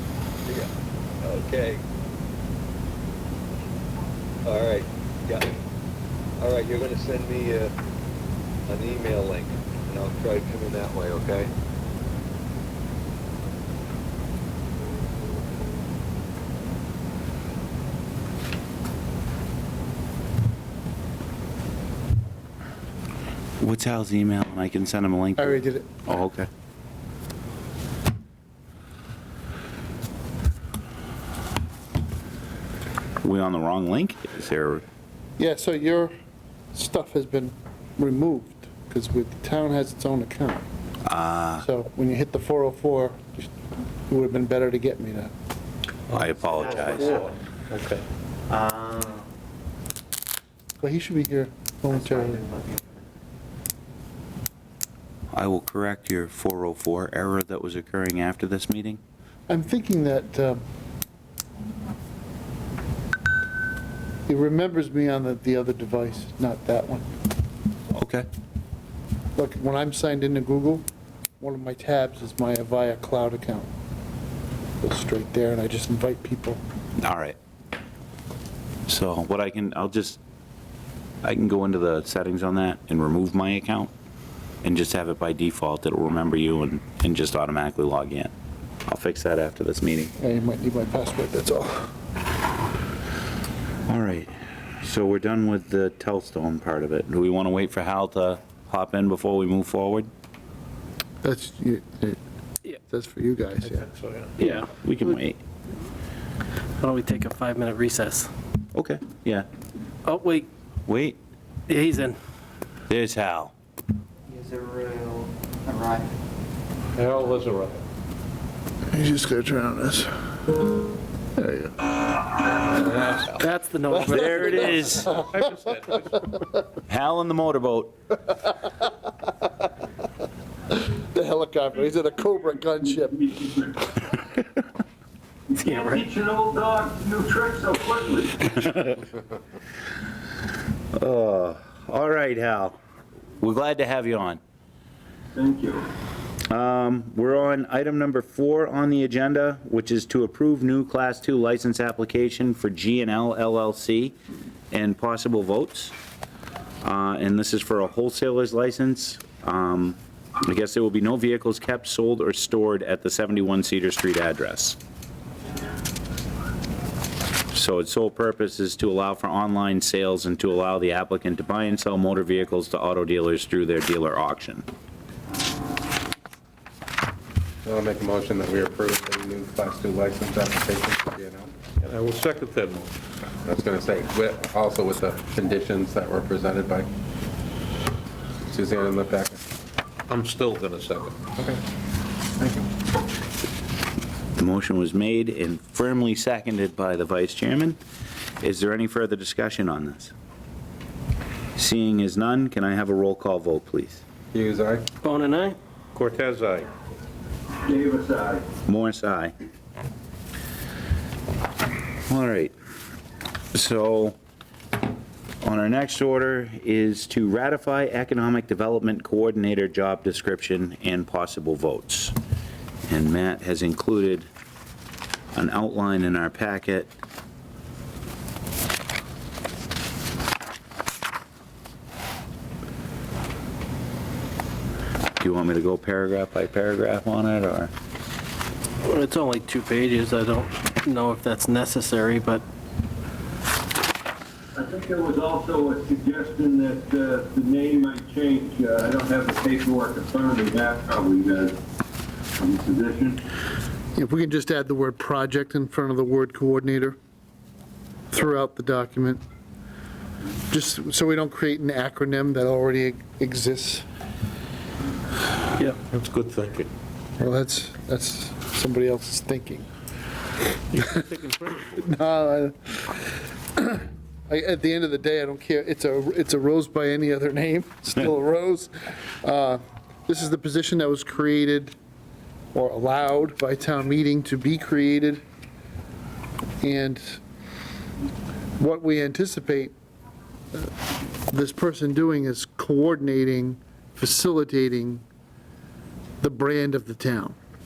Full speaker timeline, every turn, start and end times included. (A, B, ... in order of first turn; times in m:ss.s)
0:00.4-0:01.8 A
0:04.4-0:05.6 A
0:06.4-0:07.7 A
0:08.7-0:11.5 A
0:23.6-0:26.5 B
0:25.4-0:26.0 C
0:33.2-0:34.8 B
0:35.4-0:36.1 C
0:36.7-0:40.6 C
0:41.0-0:41.6 B
0:41.6-0:43.5 C
0:44.1-0:45.3 C
0:46.1-0:48.0 D
0:46.1-0:47.2 B
0:46.4-0:47.2 E
0:48.5-0:49.2 E
0:50.8-0:52.4 C
0:52.0-0:52.9 E
0:55.3-0:59.0 B
0:59.5-1:00.6 C
1:04.3-1:07.1 C
1:07.9-1:08.2 B
1:09.3-1:10.8 C
1:11.4-1:13.7 C
1:14.8-1:16.6 C
1:17.0-1:17.4 B
1:18.9-1:20.2 B
1:21.2-1:23.9 B
1:24.6-1:28.3 B
1:28.9-1:30.1 B
1:30.2-1:31.9 C
1:33.9-1:40.1 B
1:41.2-1:42.2 C
1:42.8-1:43.9 C
1:43.7-1:44.4 D
1:44.4-1:45.4 B
1:44.4-1:44.7 F
1:46.8-1:48.3 F
1:48.7-1:49.5 B
1:50.0-1:50.5 F
1:50.9-1:51.2 B
1:51.7-1:52.2 F
1:52.9-1:53.5 B
1:54.3-1:56.1 E
1:57.0-1:57.8 D
1:58.9-2:00.1 C
2:01.4-2:01.9 C
2:02.8-2:03.4 D
2:03.4-2:04.6 F
2:04.0-2:04.8 C
2:04.0-2:05.2 B
2:05.3-2:06.2 D
2:06.9-2:08.0 B
2:10.7-2:13.5 C
2:13.3-2:13.7 G
2:15.5-2:18.6 G
2:15.6-2:16.0 F
2:20.9-2:22.8 B
2:23.4-2:24.4 B
2:25.4-2:25.8 G
2:26.5-2:34.2 B
2:34.7-2:35.9 B
2:36.8-2:44.8 B
2:47.5-2:54.6 B
2:57.6-3:01.5 H
3:01.8-3:02.9 D
3:03.4-3:06.9 H
3:08.5-3:09.4 H
3:10.1-3:11.2 D
3:11.3-3:11.6 H
3:12.4-3:12.7 H
3:14.4-3:17.8 B
3:18.4-3:20.1 B
3:21.6-3:24.0 B
3:24.3-3:24.8 H
3:25.0-3:25.6 F
3:25.9-3:26.7 D
3:27.6-3:28.4 G
3:28.7-3:29.3 B
3:32.1-3:32.5 B
3:33.5-3:34.2 B
3:35.4-3:42.1 B
3:42.9-3:44.3 B
3:45.3-3:46.9 B
3:55.2-3:57.7 B
3:58.8-4:02.4 F
4:04.6-4:11.5 G
4:12.4-4:13.2 G
4:13.9-4:17.0 C
4:18.1-4:19.2 C
4:20.5-4:23.8 C
4:25.6-4:26.7 D
4:27.2-4:29.7 C
4:30.8-4:31.7 D
4:31.7-4:41.7 C
4:42.5-4:45.2 C
4:46.6-4:47.2 C
4:48.6-4:49.7 C
4:51.3-4:55.0 C
4:56.2-4:57.4 C